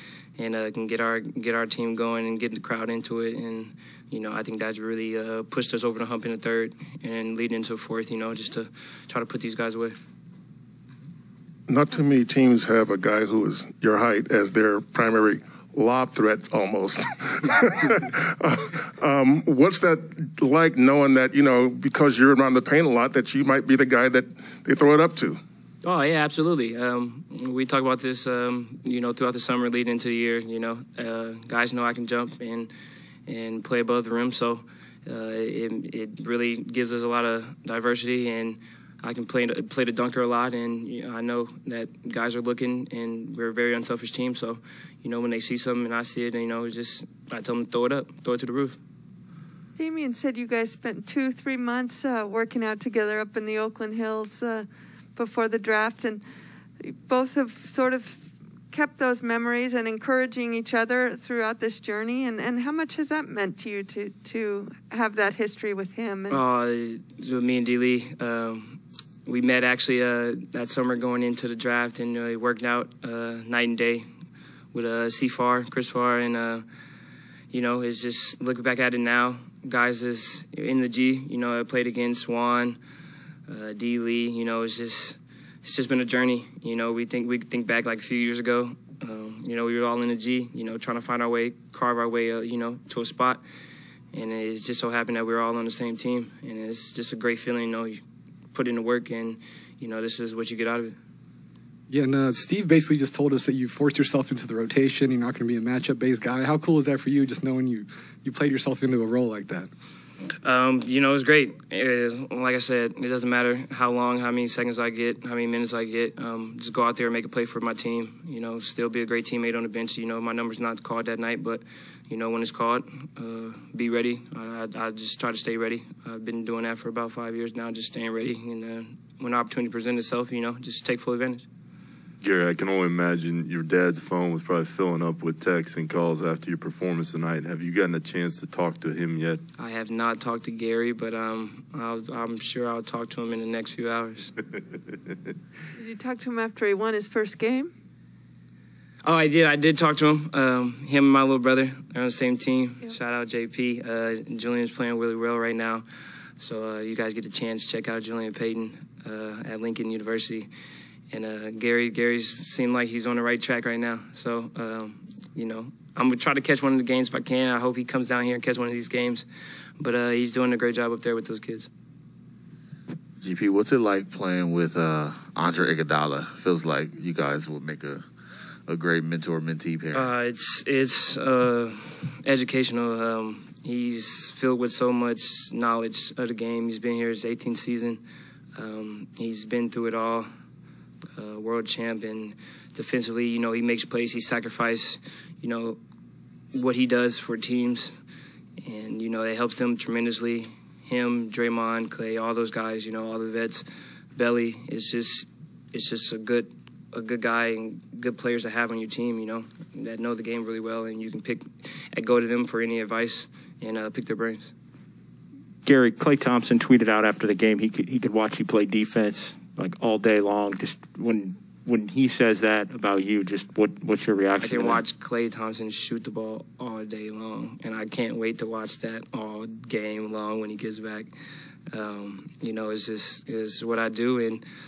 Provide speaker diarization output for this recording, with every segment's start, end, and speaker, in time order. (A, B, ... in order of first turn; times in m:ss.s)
0:00.4-0:09.9 A
0:11.7-0:25.4 B
0:25.8-0:32.7 A
0:33.3-0:48.8 A
0:49.8-0:56.2 C
0:56.8-1:06.4 C
1:06.3-1:14.0 A
1:14.7-1:16.6 A
1:17.5-1:22.8 A
1:23.5-1:33.4 A
1:34.1-1:38.0 A
1:38.5-1:41.0 A
1:41.9-1:49.7 D
1:50.4-2:11.4 A
2:12.2-2:19.4 E
2:19.6-2:24.3 A
2:25.8-2:27.7 C
2:29.0-2:35.8 A
2:36.4-2:40.5 A
2:41.1-2:49.3 A
2:49.8-2:51.7 A
2:53.2-2:58.1 F
2:58.7-3:00.1 F
2:59.9-3:08.0 A
3:08.6-3:10.3 A
3:11.2-3:15.8 A
3:16.5-3:18.0 A
3:18.6-3:34.5 A
3:35.6-3:44.8 G
3:44.4-3:51.1 A
3:51.7-3:54.4 A